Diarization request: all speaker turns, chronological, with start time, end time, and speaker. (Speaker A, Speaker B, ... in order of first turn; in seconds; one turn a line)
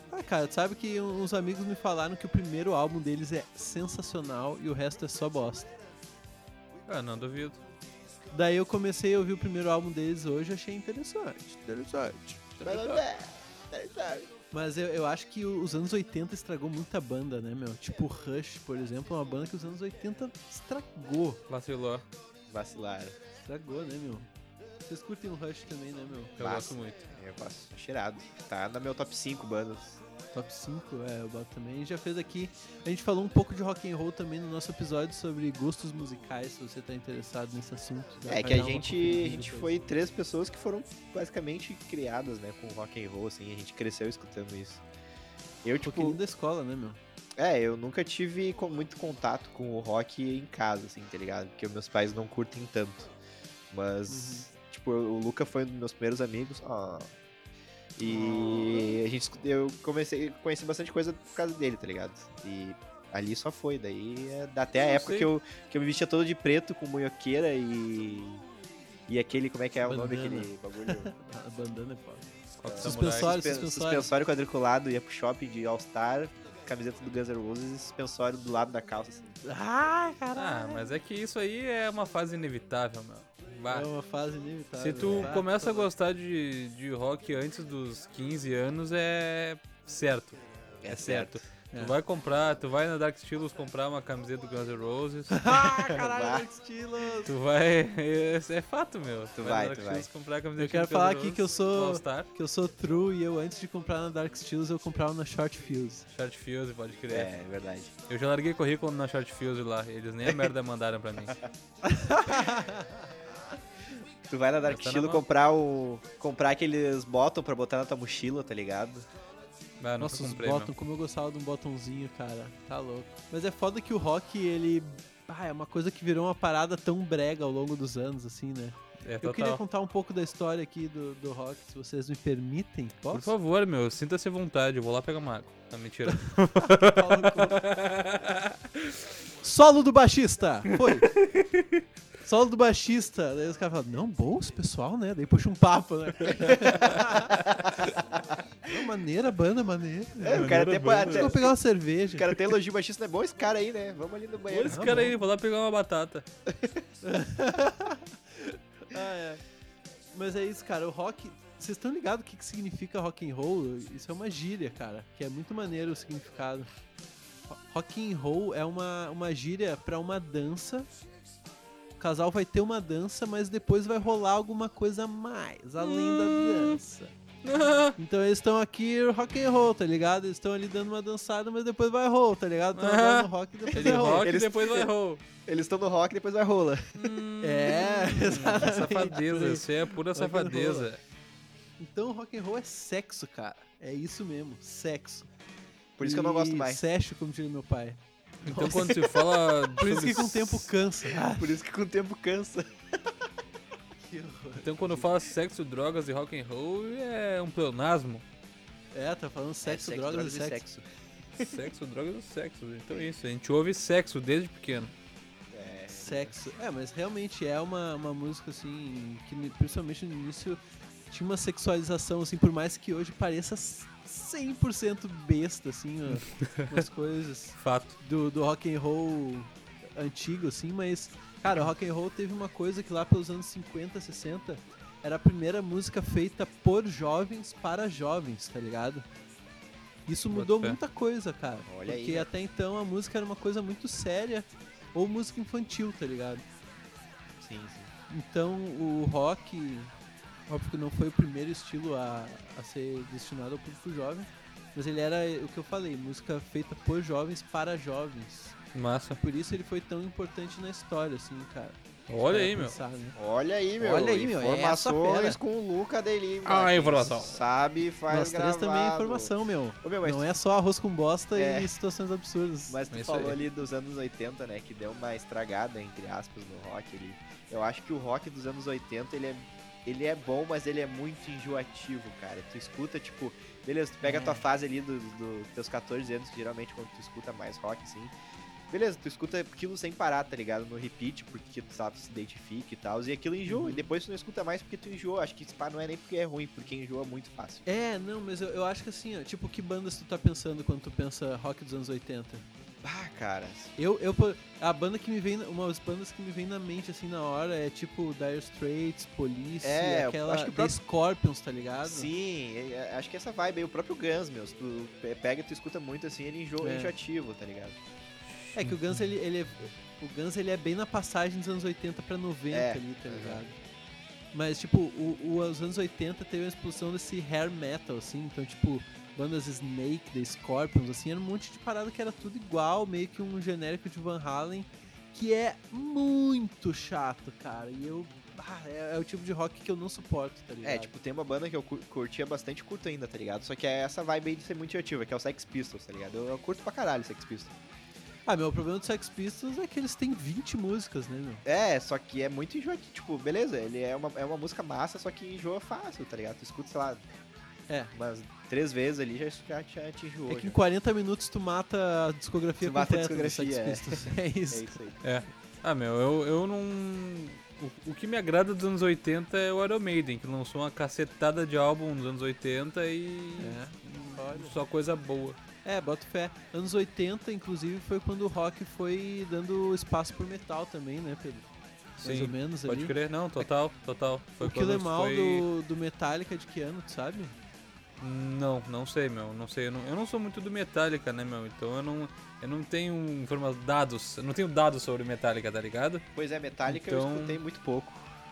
Speaker A: 0.1-5.7
Speaker B: 6.9-7.6
Speaker A: 8.3-12.6
Speaker C: 12.6-14.3
Speaker B: 12.7-13.0
Speaker A: 14.5-21.4
Speaker B: 21.5-22.0
Speaker C: 22.5-23.1
Speaker A: 23.4-24.3
Speaker A: 24.9-26.4
Speaker B: 26.4-27.0
Speaker C: 26.4-30.0
Speaker A: 30.3-39.8
Speaker C: 38.2-44.8
Speaker C: 45.6-46.2
Speaker A: 45.8-47.0
Speaker C: 47.4-53.1
Speaker C: 53.7-57.1
Speaker A: 54.1-54.5
Speaker C: 58.0-68.4
Speaker B: 58.2-58.8
Speaker B: 64.8-65.3
Speaker C: 69.1-71.1
Speaker A: 69.8-72.3
Speaker B: 72.6-73.4
Speaker C: 72.7-79.4
Speaker A: 72.8-74.1
Speaker A: 79.4-80.9
Speaker B: 80.3-83.9
Speaker A: 83.7-85.9
Speaker B: 84.8-95.5
Speaker C: 85.0-85.3
Speaker C: 90.8-91.4
Speaker A: 95.3-97.3
Speaker C: 95.7-96.5
Speaker B: 97.2-102.3
Speaker C: 99.3-100.1
Speaker A: 100.6-106.0
Speaker B: 106.1-107.3
Speaker C: 107.1-107.9
Speaker B: 108.1-111.4
Speaker A: 111.8-113.1
Speaker C: 114.3-119.1
Speaker B: 114.6-115.2
Speaker B: 119.8-120.7
Speaker A: 120.0-133.3
Speaker B: 129.0-129.6
Speaker B: 133.1-139.0
Speaker A: 136.1-137.6
Speaker A: 139.4-141.1
Speaker B: 140.8-141.8
Speaker A: 142.2-147.4
Speaker B: 146.4-147.0
Speaker C: 147.4-148.4
Speaker A: 148.6-152.5
Speaker C: 150.2-151.5
Speaker B: 150.3-151.4
Speaker C: 152.1-155.1
Speaker B: 154.5-156.2
Speaker A: 154.7-155.2
Speaker C: 156.5-156.8
Speaker A: 157.0-159.4
Speaker A: 160.1-166.7
Speaker A: 167.5-170.9
Speaker A: 172.0-177.1
Speaker B: 175.8-176.8
Speaker B: 177.4-178.0
Speaker A: 178.0-184.3
Speaker B: 182.7-185.2
Speaker C: 183.7-184.9
Speaker C: 185.4-187.2
Speaker B: 187.0-191.0
Speaker A: 187.4-190.9
Speaker A: 191.8-195.3
Speaker C: 196.0-196.8
Speaker A: 196.0-199.1
Speaker B: 198.4-200.7
Speaker A: 199.8-201.6
Speaker C: 201.2-202.7
Speaker A: 204.0-205.1
Speaker B: 204.6-208.2
Speaker A: 208.9-210.6
Speaker C: 209.6-210.8
Speaker B: 211.4-214.9
Speaker C: 215.5-216.4
Speaker A: 215.9-239.0
Speaker B: 226.1-226.8
Speaker B: 227.6-227.9
Speaker A: 240.1-246.4
Speaker B: 240.3-240.8
Speaker C: 241.7-242.3
Speaker C: 247.4-247.9
Speaker A: 248.1-249.9
Speaker A: 250.5-258.6
Speaker B: 258.7-259.2
Speaker A: 259.2-263.2
Speaker B: 262.1-262.8
Speaker C: 263.1-270.3
Speaker A: 263.8-265.4
Speaker B: 266.4-267.4
Speaker A: 268.1-272.8
Speaker C: 271.3-271.7
Speaker C: 272.7-288.1
Speaker B: 272.9-273.4
Speaker A: 284.0-284.4
Speaker C: 288.7-297.6
Speaker A: 293.4-293.8
Speaker A: 297.6-302.4
Speaker C: 302.8-303.7
Speaker A: 303.8-312.1
Speaker C: 309.6-310.8
Speaker C: 311.8-317.8
Speaker A: 316.6-316.9
Speaker B: 318.4-319.0
Speaker A: 318.5-323.6
Speaker C: 322.5-323.4
Speaker A: 324.3-340.9
Speaker C: 340.6-347.6
Speaker A: 348.2-351.4
Speaker C: 351.4-357.0
Speaker C: 357.9-360.6
Speaker A: 360.3-364.7
Speaker C: 362.6-365.0
Speaker B: 365.0-375.4
Speaker A: 373.4-374.6
Speaker A: 375.6-381.5
Speaker B: 382.0-385.4
Speaker A: 382.0-382.9
Speaker A: 384.4-387.3
Speaker B: 388.0-396.0
Speaker C: 396.1-398.1
Speaker B: 396.7-397.4